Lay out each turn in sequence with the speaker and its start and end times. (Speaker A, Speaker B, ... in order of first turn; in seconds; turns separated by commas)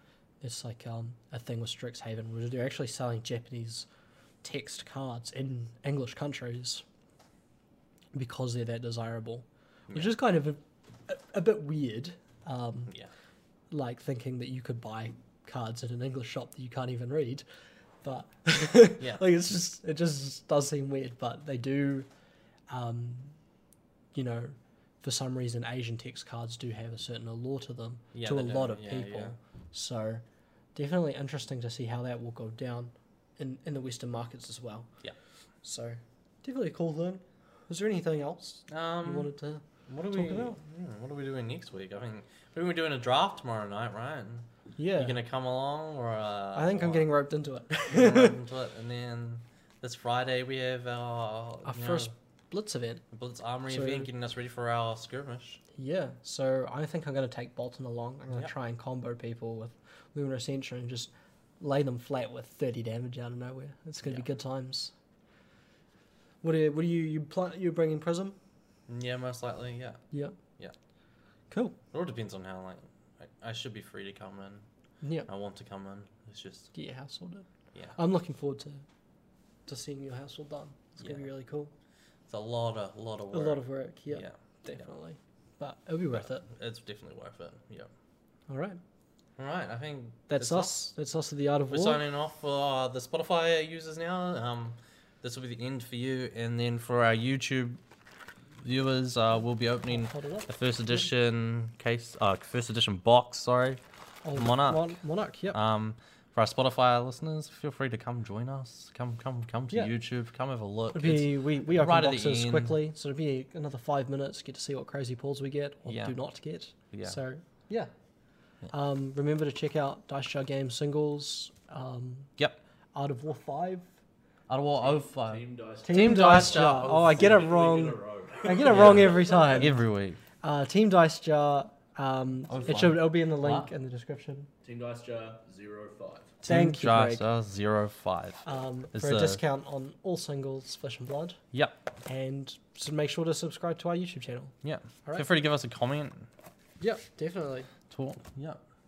Speaker A: 0.4-3.9, Speaker A: 4.4-6.8, Speaker A: 8.1-12.9, Speaker B: 9.9-10.2, Speaker A: 13.7-17.4, Speaker A: 18.0-22.1, Speaker B: 19.0-19.2, Speaker A: 22.7-23.4, Speaker A: 24.1-30.2, Speaker B: 28.1-29.4, Speaker A: 30.8-34.9, Speaker A: 35.6-40.6, Speaker B: 38.7-39.3, Speaker B: 39.9-47.1, Speaker A: 44.8-45.2, Speaker A: 46.5-48.4, Speaker B: 47.9-52.1, Speaker A: 51.6-53.0, Speaker B: 53.1-55.6, Speaker A: 53.7-54.1, Speaker A: 55.8-64.9, Speaker A: 66.4-68.4, Speaker B: 68.9-70.0, Speaker A: 70.1-70.4, Speaker A: 71.5-71.8, Speaker B: 71.9-74.7, Speaker A: 75.0-75.3, Speaker B: 75.3-76.7, Speaker A: 76.7-78.8, Speaker A: 79.7-81.7, Speaker B: 81.0-81.3, Speaker B: 82.3-84.9, Speaker A: 83.3-86.5, Speaker B: 86.1-87.9, Speaker A: 88.5-88.8, Speaker B: 89.4-90.8, Speaker A: 90.3-92.0, Speaker B: 91.7-97.8, Speaker B: 98.6-103.8, Speaker A: 99.9-100.5, Speaker A: 104.2-105.6, Speaker B: 104.4-105.0, Speaker B: 105.5-112.8, Speaker A: 110.9-117.9, Speaker B: 115.9-116.2, Speaker B: 116.9-117.2, Speaker A: 118.7-122.3, Speaker A: 123.0-123.9, Speaker B: 124.5-127.3, Speaker C: 124.8-129.7, Speaker A: 125.8-129.8, Speaker B: 128.7-130.2, Speaker A: 130.4-134.5, Speaker B: 132.5-133.7, Speaker C: 134.6-136.4, Speaker B: 136.4-139.4, Speaker A: 136.4-137.2, Speaker A: 138.4-141.4, Speaker B: 141.5-141.8, Speaker A: 142.1-144.5, Speaker B: 144.6-146.3, Speaker A: 146.8-147.7, Speaker B: 147.9-148.6